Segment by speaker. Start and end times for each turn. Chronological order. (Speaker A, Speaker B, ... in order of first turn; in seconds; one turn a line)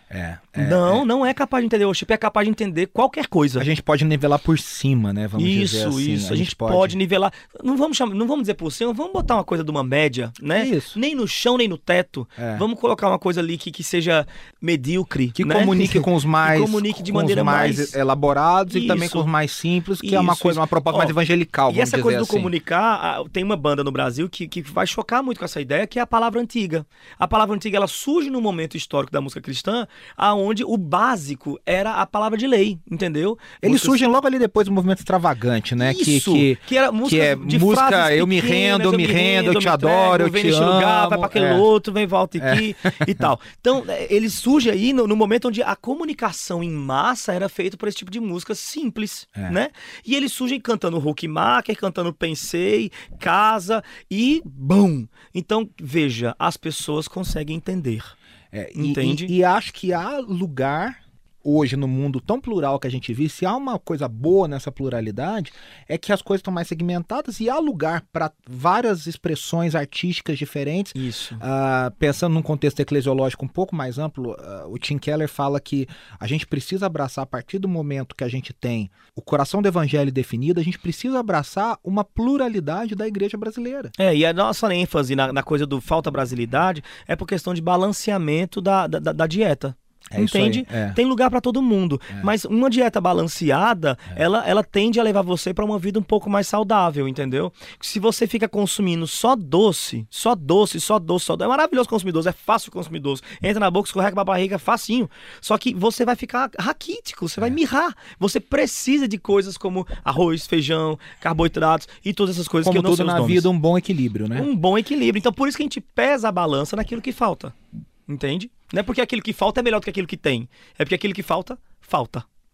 Speaker A: 0.1-1.0
Speaker B: 0.6-3.7
Speaker A: 3.6-7.0
Speaker B: 5.3-17.9
Speaker A: 10.5-11.0
Speaker A: 12.4-12.6
Speaker A: 15.3-22.5
Speaker B: 18.7-19.3
Speaker B: 20.0-21.1
Speaker B: 21.7-34.0
Speaker A: 33.6-41.6
Speaker B: 35.8-58.1
Speaker A: 42.4-43.2
Speaker A: 58.5-83.9
Speaker B: 58.8-59.3
Speaker B: 71.0-71.4
Speaker B: 84.0-113.5
Speaker A: 90.1-91.0
Speaker A: 112.6-114.5
Speaker B: 114.3-117.5
Speaker B: 118.1-122.2